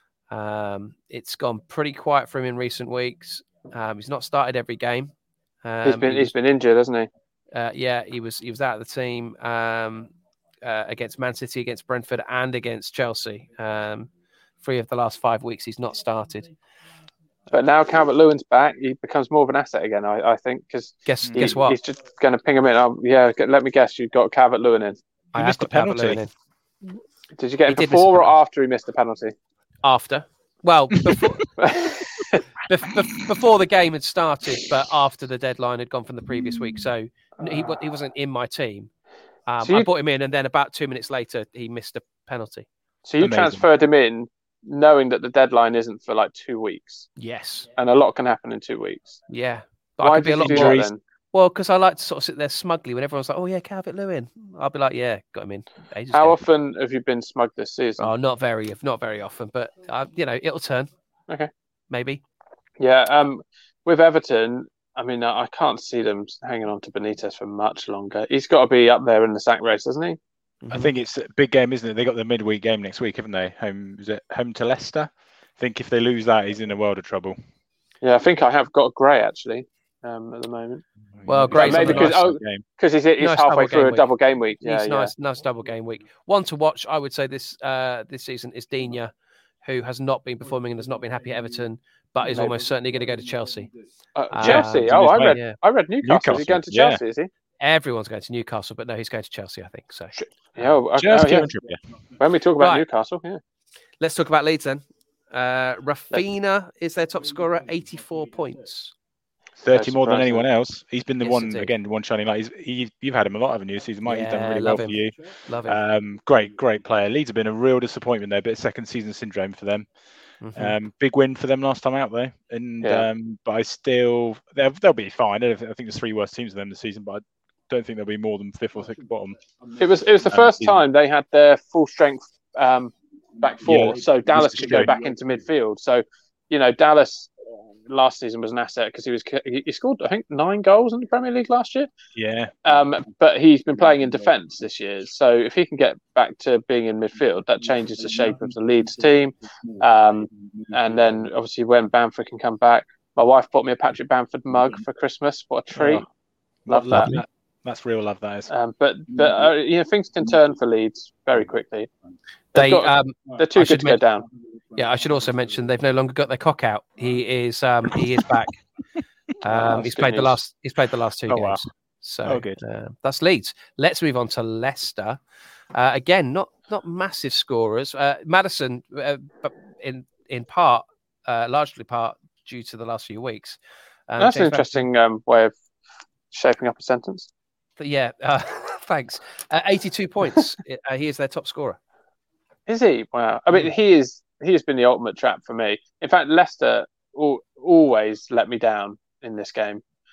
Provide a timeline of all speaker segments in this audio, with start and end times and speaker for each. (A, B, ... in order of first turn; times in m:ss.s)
0:00.3-0:05.1 A
0:05.6-0:06.3 A
0:05.8-0:07.1 B
0:07.5-0:14.1 A
0:14.6-0:16.5 A
0:17.5-0:25.0 B
0:21.1-0:21.8 A
0:21.2-0:21.5 C
0:25.3-0:26.2 C
0:25.4-0:26.3 A
0:27.4-0:29.4 B
0:27.7-0:28.3 A
0:29.8-0:31.9 A
0:31.6-0:32.4 B
0:32.6-0:38.9 A
0:37.4-0:37.7 B
0:39.5-0:42.7 A
0:39.6-0:39.9 B
0:43.0-0:47.1 B
0:43.2-0:43.7 C
0:47.2-0:47.7 A
0:47.8-0:49.2 B
0:49.3-0:56.4 A
0:50.0-0:51.0 B
0:50.4-0:50.9 C
0:56.1-0:58.1 B
0:58.0-1:00.9 A
1:01.9-1:02.2 A
1:02.8-1:10.2 B
1:10.6-1:10.9 A
1:10.7-1:17.4 C
1:18.0-1:20.8 B
1:21.2-1:22.6 C
1:21.3-1:22.3 A
1:21.5-1:25.1 B
1:23.2-1:29.1 A
1:29.6-1:33.7 A
1:32.3-1:32.6 B
1:34.1-1:37.3 B
1:34.3-1:35.6 A
1:34.4-1:35.4 C
1:36.0-1:37.0 C
1:37.6-1:40.1 A
1:40.1-1:41.5 B
1:41.0-1:41.8 C
1:42.2-1:43.4 B
1:42.6-1:42.9 A
1:44.0-1:48.9 A
1:49.6-1:59.9 C
1:49.7-1:50.4 B
1:51.2-1:51.7 A
1:54.0-1:55.8 A
2:00.4-2:00.8 A
2:00.6-2:09.4 C
2:02.8-2:03.1 B
2:09.8-2:17.3 B
2:10.3-2:10.8 C
2:13.6-2:15.0 C
2:17.9-2:21.9 B
2:22.1-2:22.6 C
2:22.6-2:36.1 B
2:35.7-2:36.0 C
2:36.7-2:38.5 C
2:36.7-2:37.2 B
2:38.5-2:41.9 B
2:42.5-2:44.3 B
2:42.6-2:44.0 A
2:44.8-2:48.6 A
2:49.4-2:55.2 A
2:49.4-2:50.4 B
2:51.3-2:51.6 C
2:52.2-2:52.6 C
2:55.7-3:04.9 A
3:04.2-3:05.5 B
3:06.3-3:07.3 B
3:07.8-3:11.8 A
3:12.7-3:19.8 B